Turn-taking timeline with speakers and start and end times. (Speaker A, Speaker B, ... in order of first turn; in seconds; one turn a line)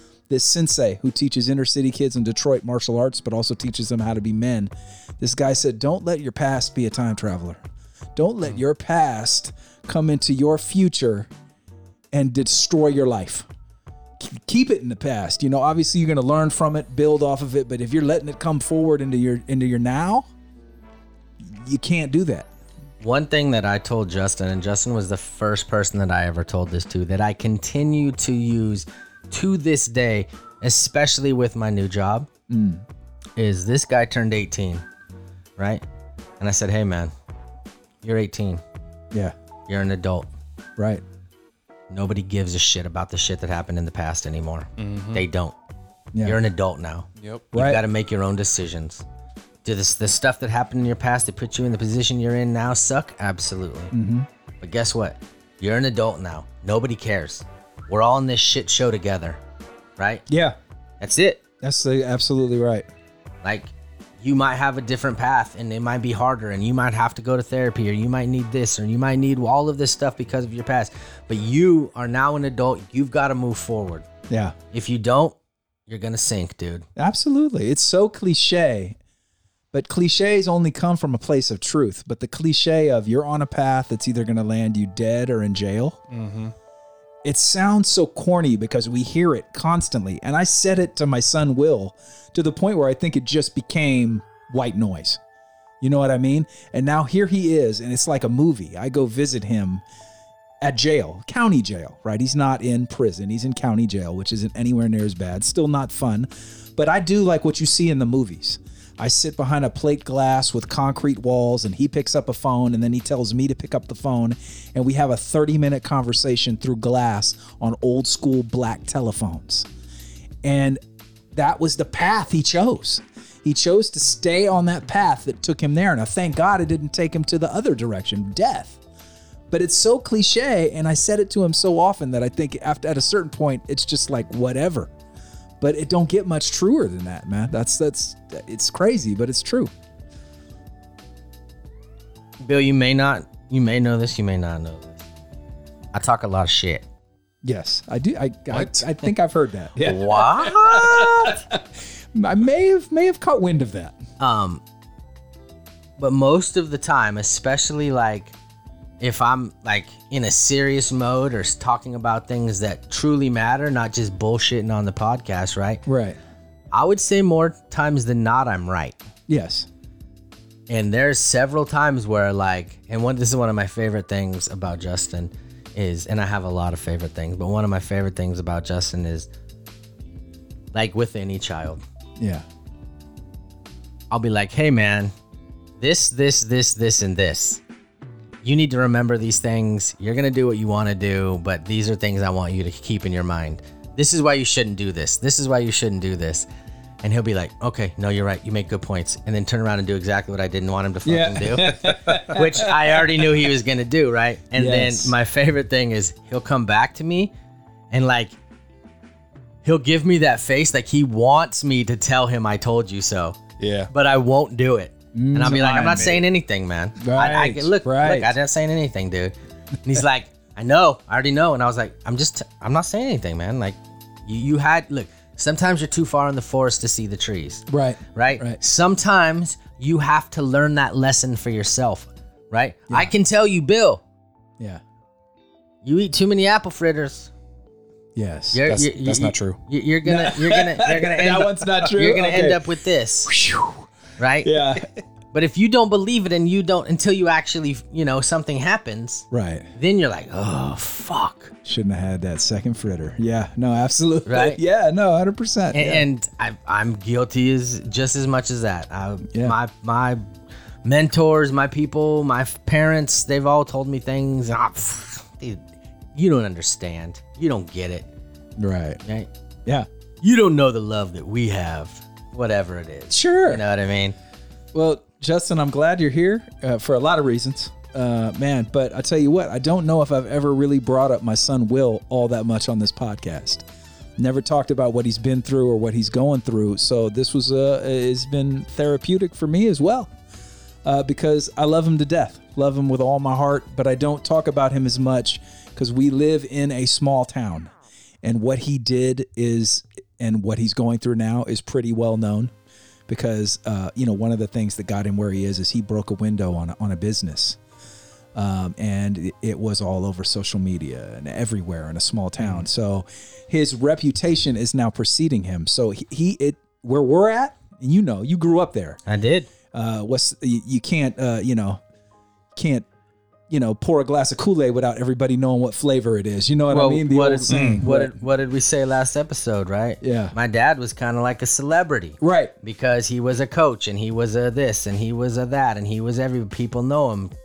Speaker A: 0.3-7.6
Speaker A: 8.2-11.3
Speaker A: 12.1-13.4
Speaker A: 14.2-20.3
Speaker A: 21.4-22.5
Speaker B: 23.0-32.3
Speaker A: 32.5-32.8
Speaker B: 33.4-34.8
Speaker B: 35.6-35.8
Speaker B: 36.4-37.1
Speaker B: 38.0-38.6
Speaker B: 39.7-40.3
Speaker A: 40.8-41.0
Speaker B: 41.9-45.5
Speaker C: 44.8-45.2
Speaker A: 46.1-46.4
Speaker B: 46.2-49.0
Speaker C: 47.2-47.5
Speaker A: 47.5-47.8
Speaker B: 49.6-53.9
Speaker A: 53.9-54.3
Speaker B: 54.6-59.4
Speaker B: 60.0-60.2
Speaker A: 60.3-60.5
Speaker B: 61.0-61.4
Speaker A: 61.6-62.9
Speaker B: 63.4-74.0
Speaker A: 74.3-74.5
Speaker B: 74.7-75.3
Speaker B: 75.9-76.8
Speaker A: 77.0-79.0
Speaker A: 79.7-86.0
Speaker C: 86.1-86.5
Speaker A: 87.2-95.2
Speaker A: 95.8-99.8
Speaker A: 100.6-119.7
Speaker A: 120.4-120.8
Speaker A: 121.3-128.8
Speaker A: 129.5-134.9
Speaker A: 135.6-139.7
Speaker B: 142.4-145.0
Speaker B: 145.9-146.8
Speaker A: 147.4-151.6
Speaker C: 148.5-148.8
Speaker B: 149.8-151.3
Speaker A: 152.1-153.9
Speaker B: 154.2-154.6
Speaker B: 156.0-158.3
Speaker B: 159.0-165.8
Speaker A: 165.8-166.2
Speaker B: 166.7-168.9
Speaker A: 169.3-169.7
Speaker B: 170.7-179.3
Speaker B: 180.7-181.8
Speaker A: 182.2-182.4
Speaker B: 184.1-185.1
Speaker B: 185.8-187.6
Speaker B: 188.4-196.5
Speaker B: 197.0-207.3
Speaker A: 201.0-203.2
Speaker A: 204.5-205.1
Speaker B: 207.9-208.3
Speaker B: 209.6-213.4
Speaker C: 213.6-213.9
Speaker B: 213.9-234.0
Speaker A: 215.1-216.0
Speaker C: 215.4-216.2
Speaker A: 217.0-218.3
Speaker A: 227.7-228.6
Speaker B: 235.8-237.3
Speaker A: 238.1-238.6
Speaker B: 238.5-243.3
Speaker C: 238.7-239.6
Speaker A: 240.0-242.7
Speaker A: 243.2-243.9
Speaker B: 244.2-244.8
Speaker A: 244.4-244.9
Speaker B: 245.3-251.5
Speaker A: 249.3-249.7
Speaker A: 251.6-256.0
Speaker B: 254.2-254.6
Speaker B: 255.7-260.2
Speaker A: 259.3-259.6
Speaker B: 260.8-265.6
Speaker B: 266.1-268.1
Speaker A: 268.6-269.0
Speaker B: 269.0-269.3
Speaker B: 270.2-274.1
Speaker A: 273.1-273.6
Speaker A: 274.7-283.6
Speaker A: 284.2-290.1
Speaker A: 290.8-297.7
Speaker A: 298.2-302.5
Speaker A: 303.1-307.6
Speaker A: 308.4-319.0
Speaker B: 319.1-319.5
Speaker A: 319.7-321.8
Speaker A: 322.6-322.9
Speaker A: 323.5-328.2
Speaker B: 326.7-337.3
Speaker C: 327.5-327.8
Speaker A: 330.0-330.3
Speaker A: 332.2-332.5